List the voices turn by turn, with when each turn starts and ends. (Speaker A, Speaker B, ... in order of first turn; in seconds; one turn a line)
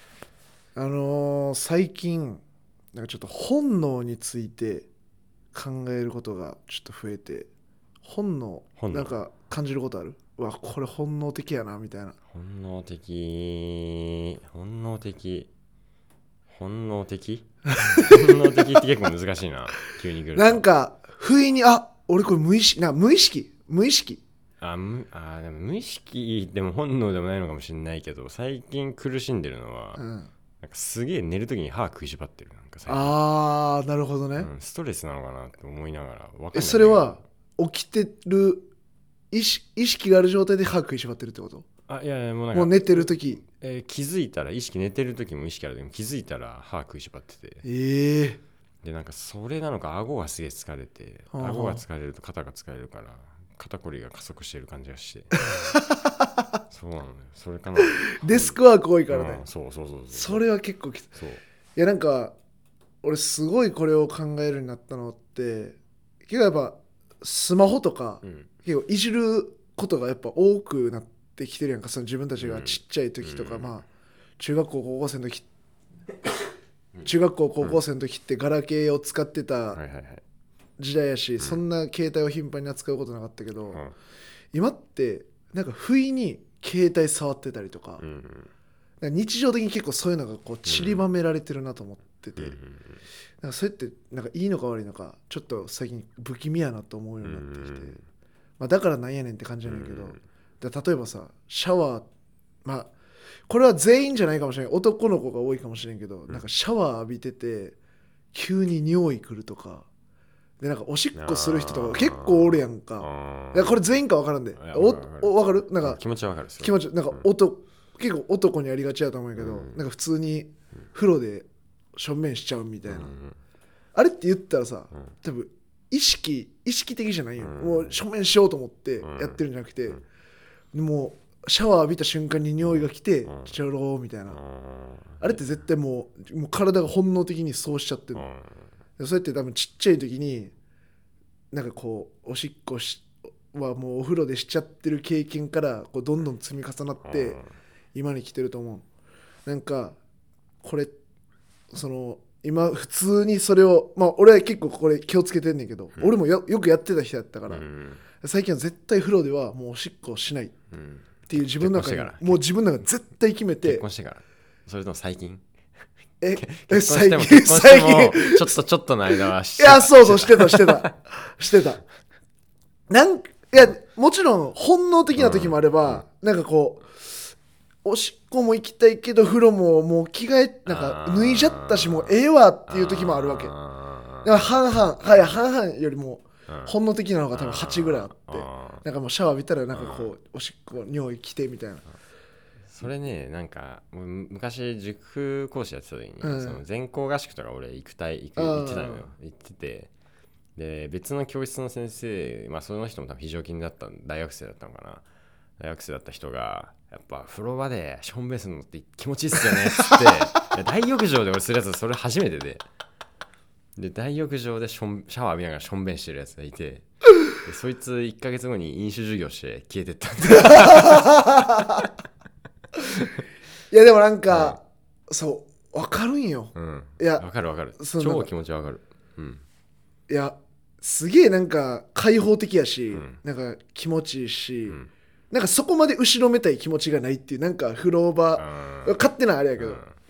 Speaker A: 0.8-2.4
Speaker A: 2.9-4.9
Speaker A: 5.5-7.5
Speaker A: 8.0-12.2
Speaker B: 8.8-9.1
Speaker B: 12.3-15.5
Speaker B: 16.5-20.6
Speaker A: 17.7-18.8
Speaker A: 20.3-24.2
Speaker B: 24.6-30.0
Speaker A: 29.9-30.3
Speaker B: 30.6-33.1
Speaker A: 32.9-34.5
Speaker B: 34.4-37.2
Speaker A: 36.5-38.7
Speaker A: 39.3-41.7
Speaker B: 41.9-47.6
Speaker A: 42.5-43.4
Speaker A: 47.6-48.4
Speaker B: 48.8-55.3
Speaker A: 51.3-51.8
Speaker A: 55.4-56.6
Speaker B: 56.7-58.6
Speaker A: 57.8-59.4
Speaker B: 59.1-60.4
Speaker A: 60.1-61.1
Speaker B: 61.1-61.4
Speaker A: 61.8-62.3
Speaker A: 63.0-73.8
Speaker B: 68.2-68.5
Speaker B: 72.3-73.8
Speaker A: 74.4-75.5
Speaker A: 77.0-79.8
Speaker B: 79.7-80.2
Speaker A: 80.8-83.8
Speaker B: 83.7-83.9
Speaker A: 84.5-88.0
Speaker B: 88.0-88.5
Speaker A: 89.0-92.6
Speaker B: 90.7-91.0
Speaker B: 92.4-93.0
Speaker A: 93.4-98.0
Speaker B: 97.2-98.0
Speaker A: 98.6-102.1
Speaker B: 99.7-100.2
Speaker A: 102.6-102.9
Speaker A: 103.5-107.8
Speaker A: 108.3-109.9
Speaker A: 110.6-116.0
Speaker B: 111.1-114.0
Speaker B: 114.6-117.2
Speaker A: 116.6-123.1
Speaker B: 119.4-119.8
Speaker B: 122.8-123.4
Speaker A: 123.9-130.0
Speaker B: 127.4-128.0
Speaker B: 129.0-129.4
Speaker A: 130.7-134.4
Speaker B: 132.6-133.5
Speaker B: 134.3-135.4
Speaker A: 135.2-138.3
Speaker B: 138.1-138.7
Speaker A: 139.0-140.5
Speaker A: 141.5-147.4
Speaker B: 147.0-147.5
Speaker A: 147.9-148.8
Speaker A: 149.4-149.9
Speaker A: 150.6-150.9
Speaker A: 151.7-157.6
Speaker B: 157.5-158.0
Speaker A: 158.2-160.6
Speaker B: 160.7-162.4
Speaker A: 161.3-163.8
Speaker B: 163.6-165.4
Speaker A: 166.2-168.5
Speaker B: 166.3-170.9
Speaker A: 169.6-171.8
Speaker A: 172.9-177.1
Speaker B: 175.1-176.0
Speaker A: 177.8-183.5
Speaker B: 180.7-182.2
Speaker B: 182.7-185.4
Speaker A: 184.2-191.8
Speaker B: 186.5-186.7
Speaker B: 187.3-188.8
Speaker B: 189.7-190.1
Speaker B: 192.7-199.9
Speaker A: 196.2-196.6
Speaker A: 198.3-199.1
Speaker B: 200.6-205.0
Speaker B: 205.6-212.6
Speaker B: 213.8-216.8
Speaker B: 217.4-221.8
Speaker A: 220.2-221.9
Speaker B: 222.9-223.2
Speaker A: 223.7-227.2
Speaker B: 224.3-224.6
Speaker B: 226.5-229.4
Speaker A: 227.8-228.3
Speaker A: 230.1-234.8
Speaker B: 232.9-233.2
Speaker A: 235.3-239.8
Speaker B: 238.3-239.0
Speaker B: 239.6-239.9